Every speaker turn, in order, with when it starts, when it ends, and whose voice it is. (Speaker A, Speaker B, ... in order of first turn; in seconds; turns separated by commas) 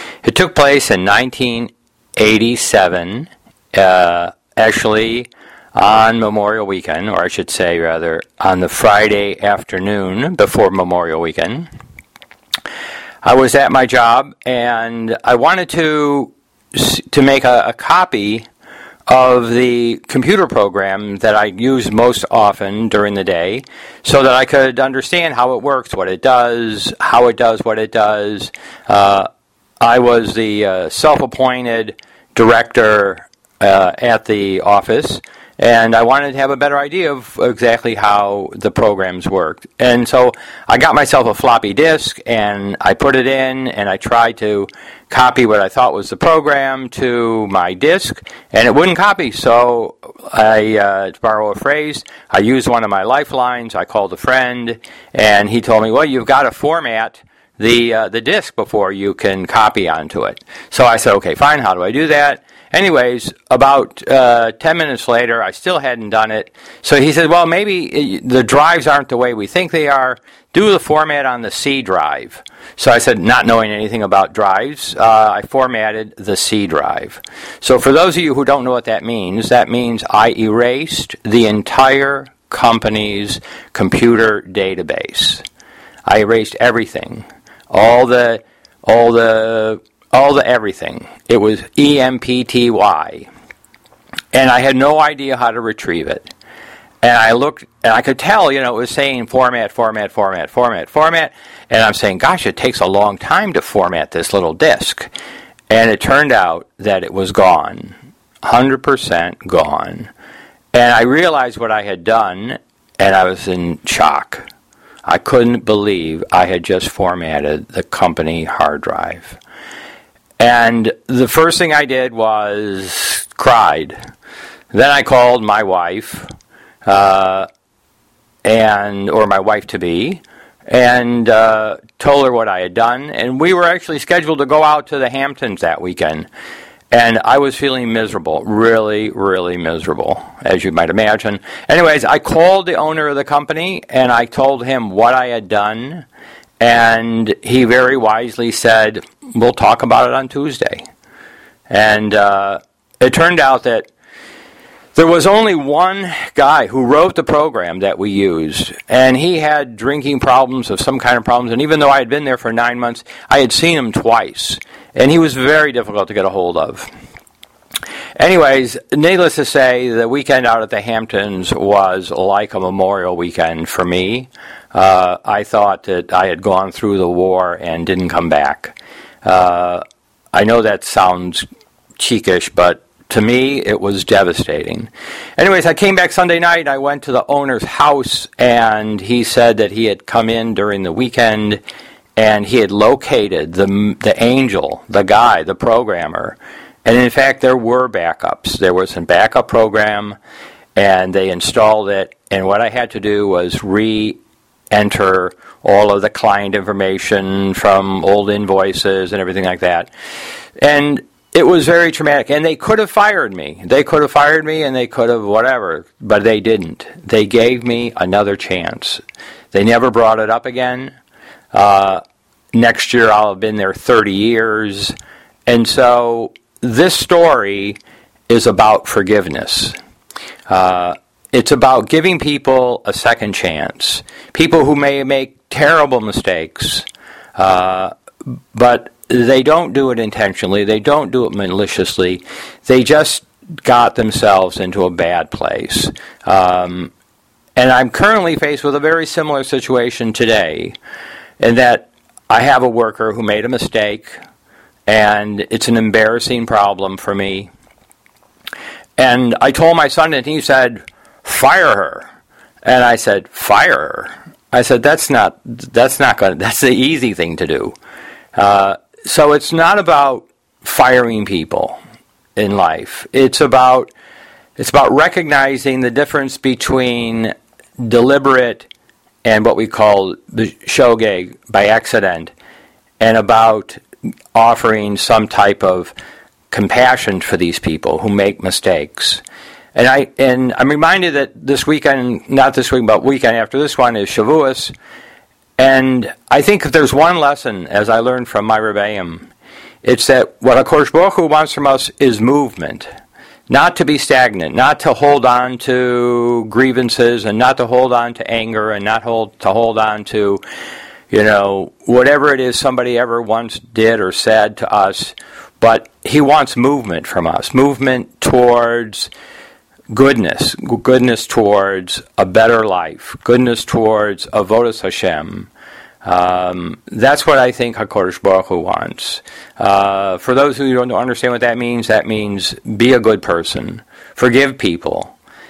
Speaker A: 0.2-11.7, Speaker A: 13.2-18.5, Speaker A: 19.1-29.3, Speaker A: 29.8-85.4, Speaker A: 86.1-93.3, Speaker A: 94.3-96.3, Speaker A: 97.0-105.1, Speaker A: 105.7-110.1, Speaker A: 110.7-114.5, Speaker A: 115.1-119.4, Speaker A: 120.4-124.0, Speaker A: 124.7-126.3, Speaker A: 126.8-127.5, Speaker A: 128.4-136.3, Speaker A: 136.9-146.1, Speaker A: 146.6-150.8, Speaker A: 151.7-153.9, Speaker A: 154.9-166.9, Speaker A: 168.2-181.5, Speaker A: 182.0-191.6, Speaker A: 192.2-200.2, Speaker A: 200.8-204.2, Speaker A: 204.7-209.9, Speaker A: 210.6-220.9, Speaker A: 221.5-222.0, Speaker A: 222.5-224.9, Speaker A: 225.5-227.8, Speaker A: 228.3-229.8, Speaker A: 230.5-237.9, Speaker A: 238.5-246.9, Speaker A: 247.6-250.8, Speaker A: 251.4-254.2, Speaker A: 254.9-257.5, Speaker A: 259.0-262.1, Speaker A: 262.6-267.8, Speaker A: 268.4-271.8, Speaker A: 272.4-273.9, Speaker A: 274.6-278.7, Speaker A: 279.2-282.3, Speaker A: 283.0-283.8, Speaker A: 284.3-285.9, Speaker A: 286.5-289.2, Speaker A: 289.8-294.7, Speaker A: 295.6-299.3, Speaker A: 299.8-302.9, Speaker A: 303.5-310.4, Speaker A: 311.1-319.1, Speaker A: 319.9-325.5, Speaker A: 326.0-335.1